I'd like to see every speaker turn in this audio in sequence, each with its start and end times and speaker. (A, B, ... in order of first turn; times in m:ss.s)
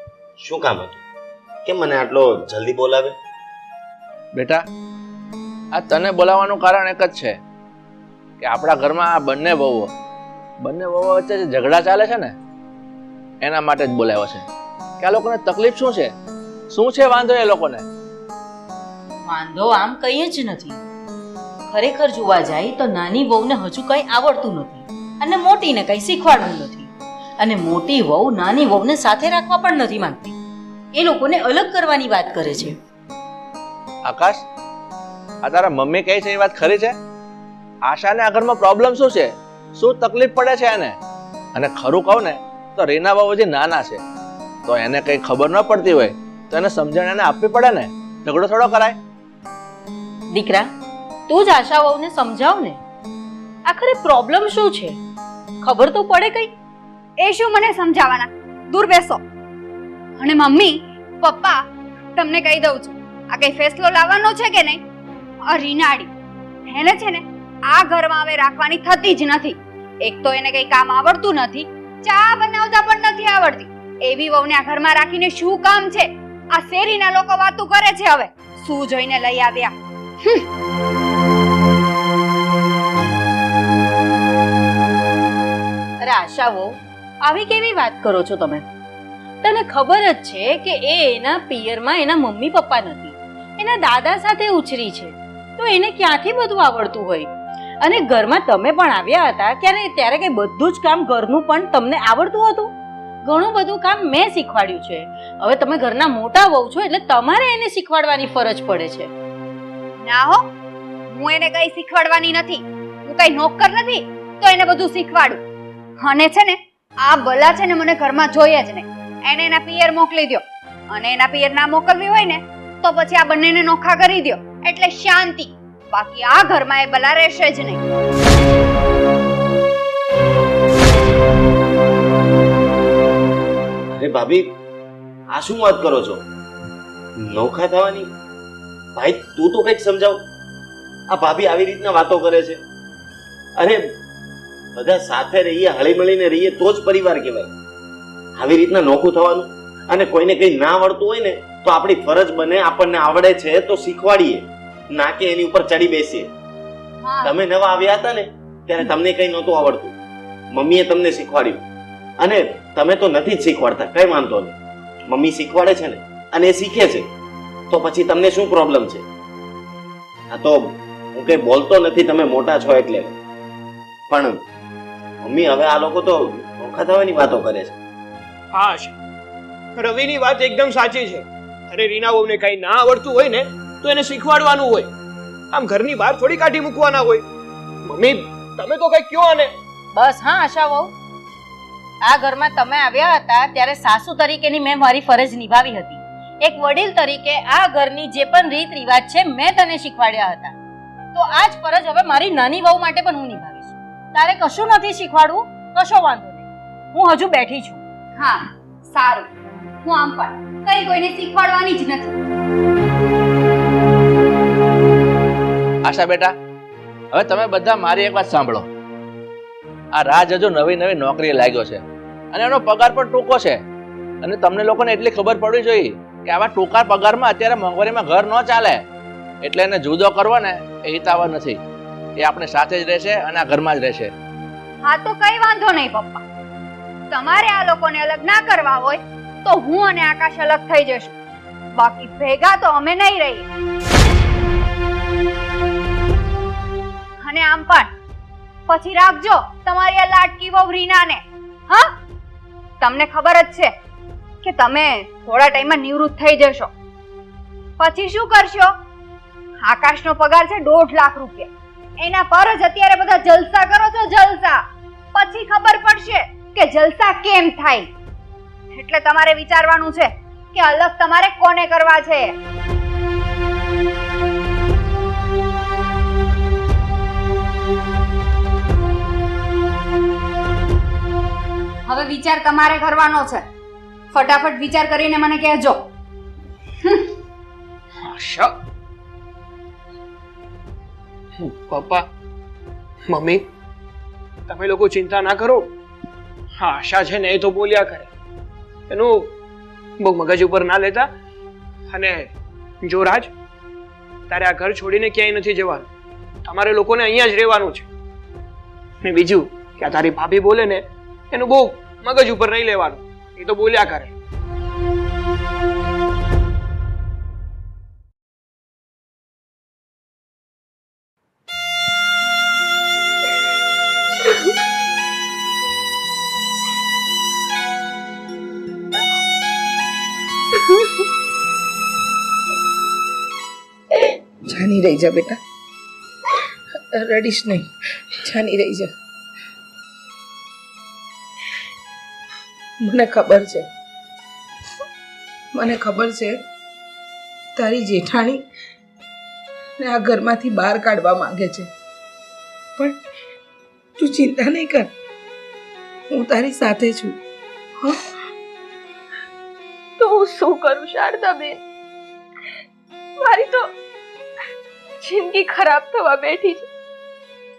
0:00.4-0:01.0 A
0:01.6-0:03.1 A
0:04.3-0:04.6 B
0:05.7-0:07.4 B
0:08.4-0:09.9 B
0:10.6-0:12.3 B
0:13.4-0:14.5 B
0:15.0-0:16.1 B
0:16.7-0:17.8 B
0:19.2-0:20.8 C
0:21.7-0:30.4 C
0:30.9-0:32.7 C
0:34.0-0:34.4 B
0:35.4-0:37.0 B
0:37.8-0:41.0 B
0:41.5-0:44.0 B
0:44.6-0:49.0 B
0:50.3-0:50.7 C
0:51.3-0:52.8 C
0:53.6-0:55.0 C
0:55.6-0:56.5 C
0:57.2-0:59.2 D
1:00.2-1:01.6 D
1:02.1-1:04.8 D
1:05.5-1:06.1 D
1:06.7-1:20.4 D
1:26.0-1:28.6 C
1:29.4-1:37.3 C
1:37.8-1:42.7 C
1:43.2-1:49.1 C
1:50.0-1:50.4 D
1:51.1-1:55.4 D
1:56.0-2:07.8 D
2:13.9-2:14.5 A
2:15.3-2:16.2 A
2:17.2-2:18.1 A
2:19.0-2:20.2 A
2:21.1-2:22.6 A
2:24.8-2:27.5 A
2:28.4-2:36.3 A
2:37.0-2:37.4 D
2:37.2-2:39.9 A
2:40.5-2:41.6 A
2:42.2-2:44.6 A
2:45.1-2:47.1 A
2:47.7-2:49.0 A
2:50.3-2:53.2 A
2:54.1-2:54.4 A
2:55.2-2:57.8 A
2:58.5-2:58.9 E
2:59.8-3:04.9 E
3:05.5-3:07.2 E
3:07.9-3:09.5 E
3:09.9-3:10.9 C
3:12.0-3:20.6 C
3:21.1-3:27.8 C
3:28.2-3:29.3 D
3:29.8-3:32.2 D
3:35.8-3:36.3 B
3:37.1-3:38.7 B
3:39.9-3:43.6 B
3:44.2-3:48.8 B
3:49.4-3:51.6 B
3:52.2-3:54.1 B
3:54.8-3:56.2 D
3:57.1-4:01.1 D
4:01.8-4:03.4 D
4:07.2-4:07.9 D
4:08.7-4:11.9 D
4:12.8-4:13.7 D
4:14.4-4:16.7 D
4:17.8-4:18.7 D
4:19.6-4:24.6 D
4:25.1-4:27.9 D
4:28.7-4:32.3 D
4:41.9-4:43.4 D
4:44.1-4:45.8 D
4:51.4-4:52.0 E
4:53.1-4:53.4 E
4:54.5-4:55.7 E
4:56.6-4:58.1 E
4:58.9-4:59.3 E
5:00.0-5:01.1 E
5:01.9-5:02.3 E
5:02.8-5:03.3 E
5:04.3-5:05.8 E
5:06.5-5:07.8 E
5:09.0-5:10.8 E
5:11.3-5:14.1 E
5:34.5-5:35.4 F
5:36.9-5:38.9 F
5:42.8-5:43.7 F
5:45.5-5:46.4 F
5:47.6-5:48.4 F
5:49.8-5:51.7 F
5:54.0-5:54.9 F
5:56.1-5:57.2 F
5:57.8-5:58.1 F
6:00.0-6:01.6 G
6:03.2-6:03.6 G
6:05.0-6:06.7 G